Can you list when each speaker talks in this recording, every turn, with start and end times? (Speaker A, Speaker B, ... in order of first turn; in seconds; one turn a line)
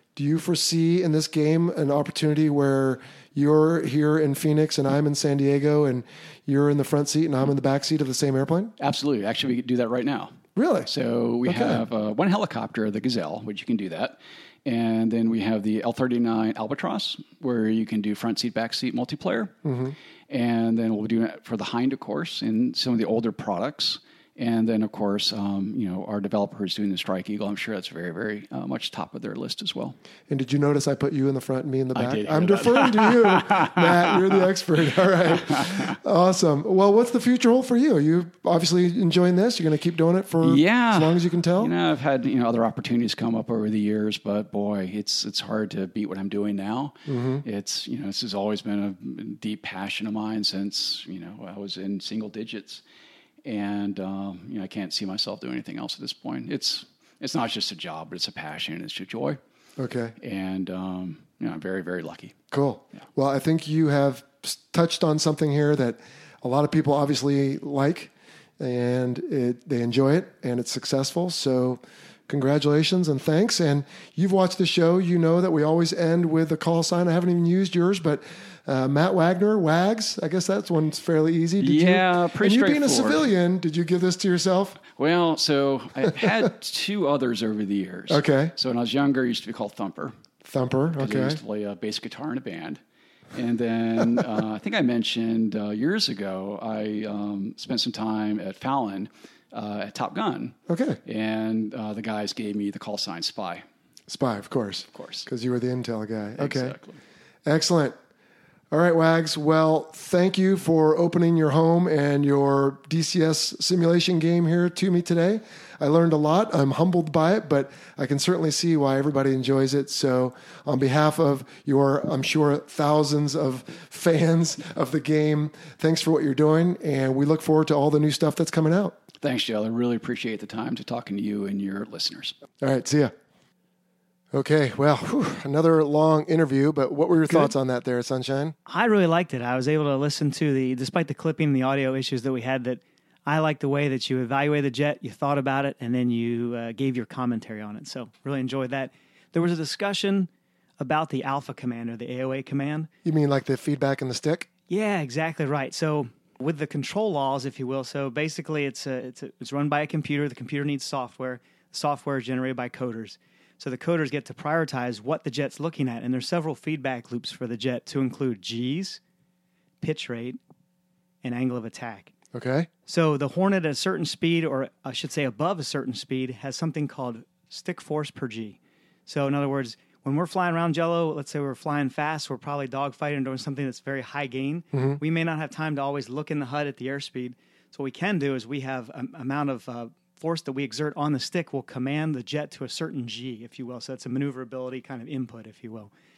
Speaker A: 0.1-8.7
Speaker B: 8.8-19.5
Speaker A: 10.6-10.9
Speaker A: 11.4-11.8
Speaker A: 19.6-20.0
Speaker B: 20.3-30.0
Speaker A: 30.3-41.7
Speaker B: 31.9-34.5
Speaker B: 35.5-35.8
Speaker B: 40.4-52.8
Speaker A: 47.1-47.4
Speaker B: 53.4-59.4
Speaker A: 59.8-60.2
Speaker B: 60.2-62.4
Speaker A: 62.5-84.8
Speaker B: 81.6-83.3
Speaker B: 84.9-90.2
Speaker A: 88.1-88.5
Speaker A: 90.4-91.4
Speaker B: 91.0-92.8
Speaker B: 93.3-103.7
Speaker A: 100.7-101.0
Speaker A: 104.1-106.8
Speaker B: 104.9-105.3
Speaker B: 106.4-107.0
Speaker A: 107.5-108.0
Speaker A: 108.7-129.0
Speaker B: 129.2-132.4
Speaker A: 132.6-133.1
Speaker A: 134.3-138.6
Speaker C: 138.7-152.9
Speaker A: 153.1-154.5
Speaker C: 154.7-169.0
Speaker C: 169.8-170.4
Speaker C: 171.2-172.1
Speaker A: 172.3-172.7
Speaker C: 172.9-195.9
Speaker A: 184.7-185.0